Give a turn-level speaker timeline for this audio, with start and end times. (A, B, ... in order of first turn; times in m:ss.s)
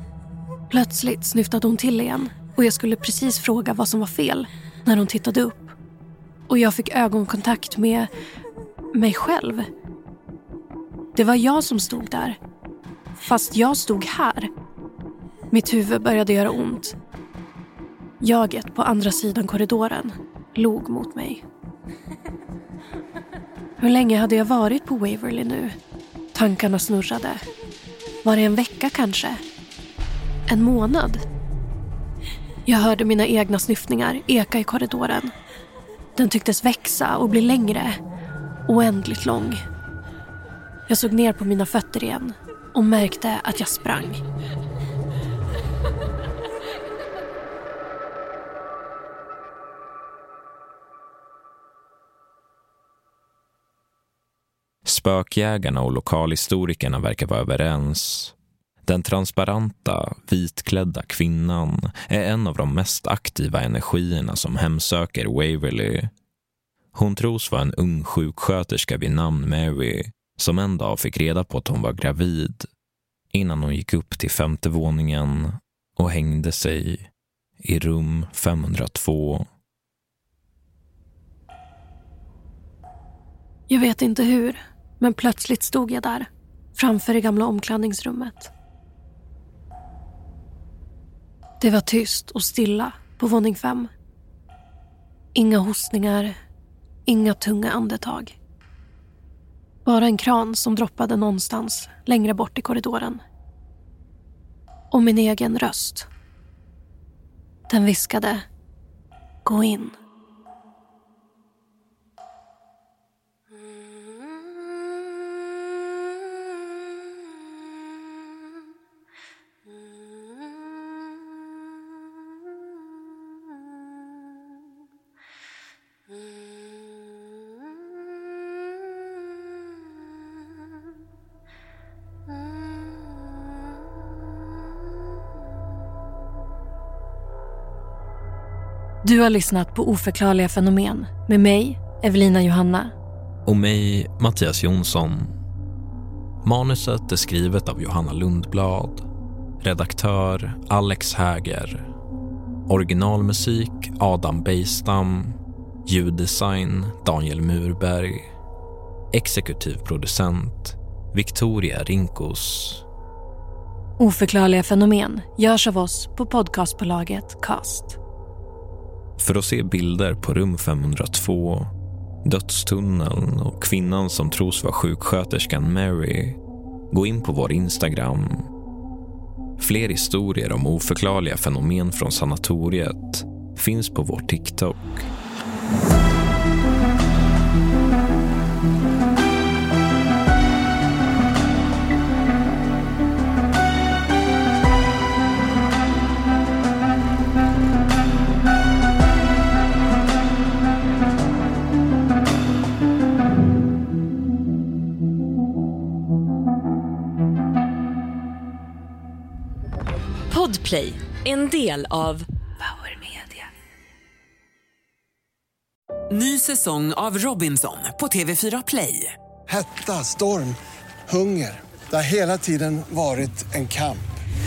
0:00.7-0:05.8 A
0:06.5-0:08.1 A
0:08.9-0:09.7 A
0:11.1-0:12.4 A
0:13.2-0:14.5 A
0:15.5-0:17.0 A
0:18.2-0:21.4 A
0:23.8-0:25.8 A
0:26.3-0:27.4 A
0:28.2-0:29.4 A
0:30.5-0:31.2 A
0:32.6-0:35.3 A
0:36.2-0:38.0 A
0:38.6-0:39.6 A
0:40.9-0:44.2 A
0:54.8-1:06.1 B
1:06.9-1:12.7 B
1:13.3-1:17.1 B
1:17.6-1:19.5 B
1:23.7-1:28.5 A
1:31.6-1:33.9 A
1:35.3-1:36.4 A
1:37.0-1:38.4 A
1:39.8-1:43.2 A
1:44.9-1:46.1 A
1:47.7-1:48.4 A
1:49.4-1:50.0 A
2:19.0-2:22.9 A
2:23.4-2:25.3 B
2:26.4-2:29.0 B
2:29.6-2:31.9 B
2:32.7-2:38.3 B
2:39.1-2:42.8 B
2:44.0-2:48.0 A
2:49.2-2:51.7 B
2:52.2-2:56.4 B
2:56.9-2:58.4 B
2:59.6-3:05.1 B
3:30.3-3:33.4 C
3:36.1-3:39.1 D
3:39.5-3:40.6 E
3:41.1-3:44.2 E